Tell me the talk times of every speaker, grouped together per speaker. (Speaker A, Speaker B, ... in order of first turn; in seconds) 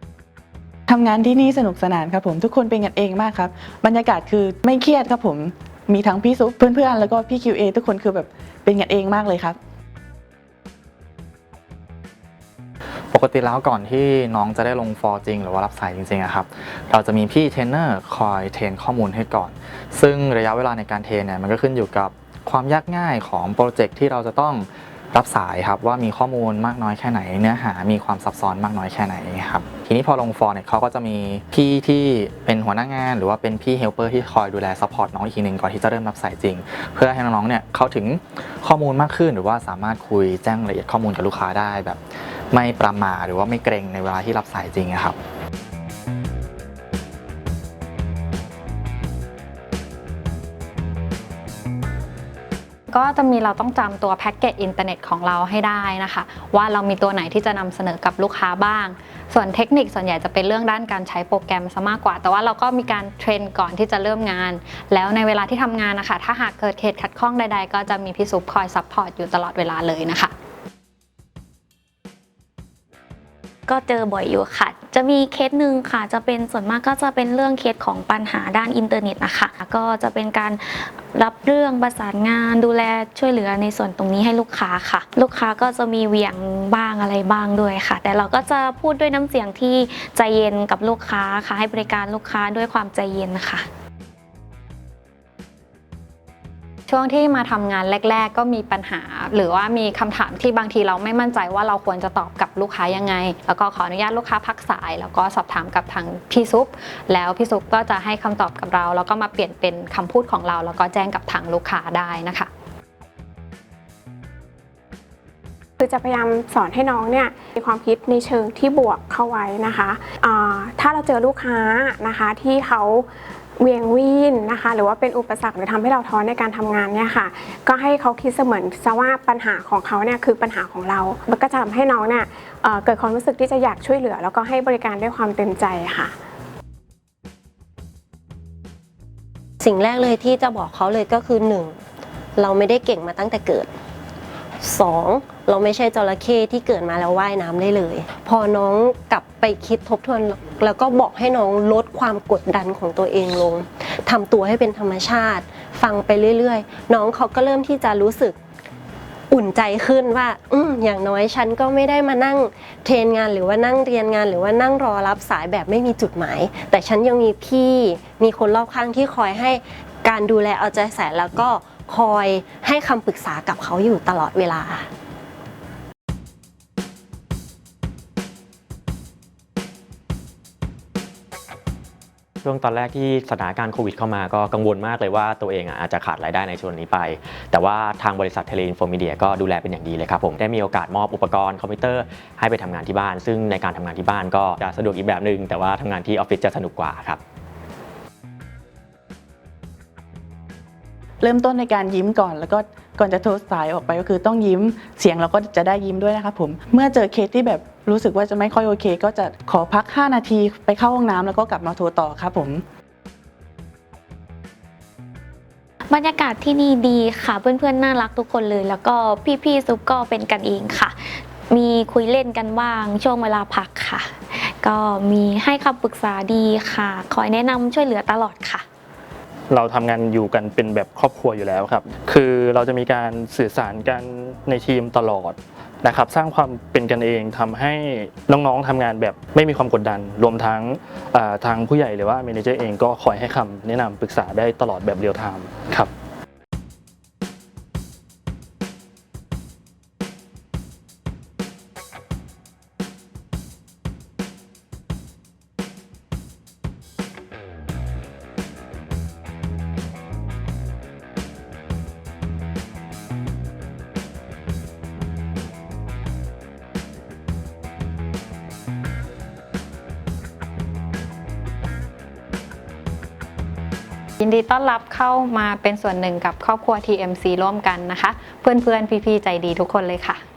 Speaker A: 0.9-9.6, 201.2-212.6
Speaker B: 13.1-45.2
Speaker C: 52.9-70.3, 96.9-112.5, 274.2-280.2
Speaker D: 73.7-93.6, 215.9-224.1, 224.6-228.6
Speaker E: 115.8-123.1, 123.6-136.1
Speaker F: 139.6-141.8, 142.4-143.7, 144.6-158.4, 159.3-174.9
Speaker G: 182.4-197.2
Speaker H: 229.5-245.9